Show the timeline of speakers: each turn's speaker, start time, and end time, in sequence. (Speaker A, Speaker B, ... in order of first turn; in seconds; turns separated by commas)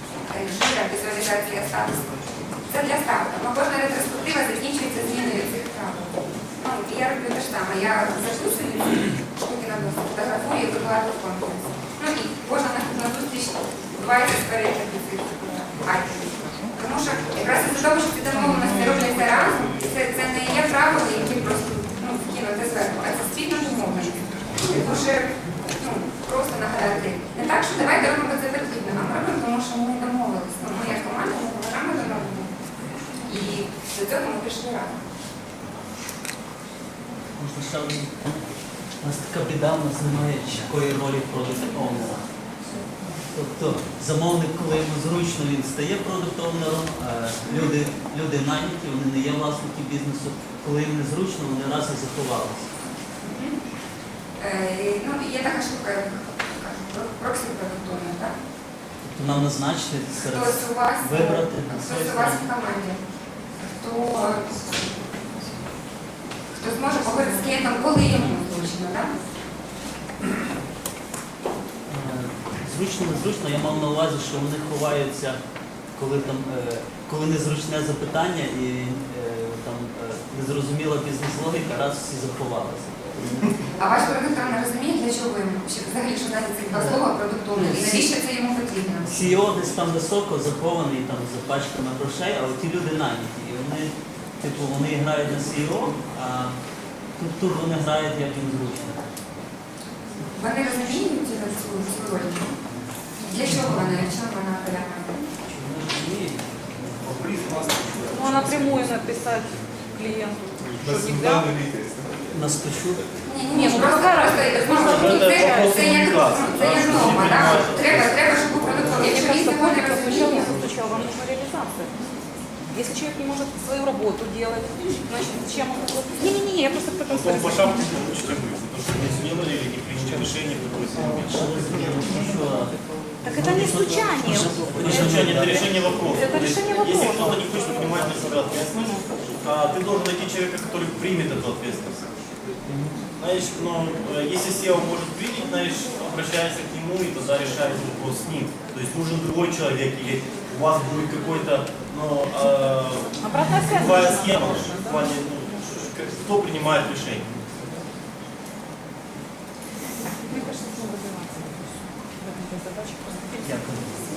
Speaker A: 0.2-32.5, Speaker A: 33.2-35.0, Speaker B: 37.4-38.4, Speaker B: 39.0-42.2, Speaker B: 43.3-52.7, Speaker A: 53.2-53.6, Speaker A: 54.4-58.3, Speaker B: 59.0-62.4, Speaker A: 60.3-63.0, Speaker A: 63.7-65.0, Speaker A: 66.5-69.3, Speaker B: 71.9-75.4, Speaker B: 76.0-83.5, Speaker A: 83.8-89.3, Speaker B: 87.7-88.0, Speaker B: 89.0-96.5, Speaker B: 97.2-99.0, Speaker A: 100.3-102.5, Speaker A: 103.2-105.3, Speaker B: 105.4-108.0, Speaker C: 108.1-111.5, Speaker B: 112.3-113.1, Speaker A: 113.2-120.5, Speaker C: 113.5-116.3, Speaker D: 114.6-118.9, Speaker C: 119.0-121.9, Speaker C: 122.7-127.9, Speaker D: 127.1-132.2, Speaker B: 131.2-135.7, Speaker C: 133.2-135.0, Speaker D: 134.8-142.0, Speaker C: 135.6-137.6, Speaker B: 142.7-143.0, Speaker D: 143.2-157.3, Speaker C: 153.2-155.1, Speaker C: 160.2-163.7, Speaker B: 163.4-163.9